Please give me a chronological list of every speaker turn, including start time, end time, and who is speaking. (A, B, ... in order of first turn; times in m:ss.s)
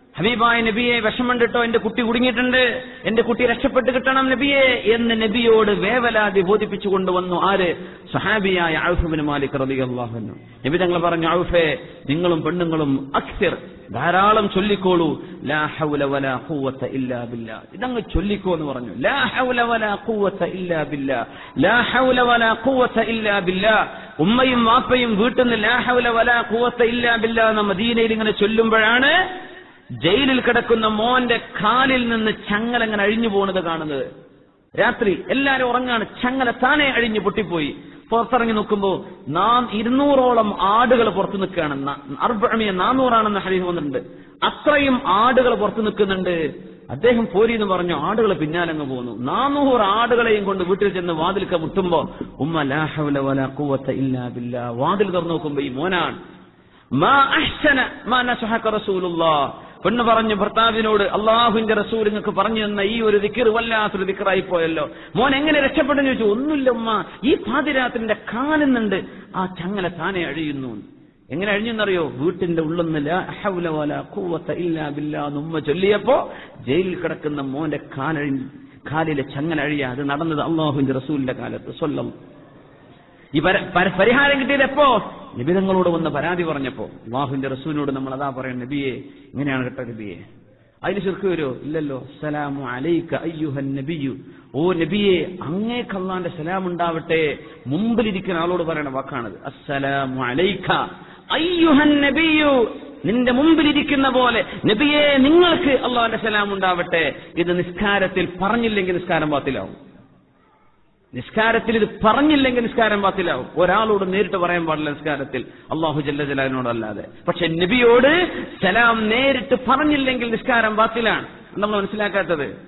0:00.2-0:29.2 A
0:30.0-0:34.0 A
0:34.8-0:46.4 A
0:46.9-0:56.2 A
0:57.0-1:10.8 A
1:11.3-1:22.1 A
1:23.3-1:30.2 A
1:30.8-1:40.8 A
1:41.3-1:49.7 A
1:51.1-2:02.5 A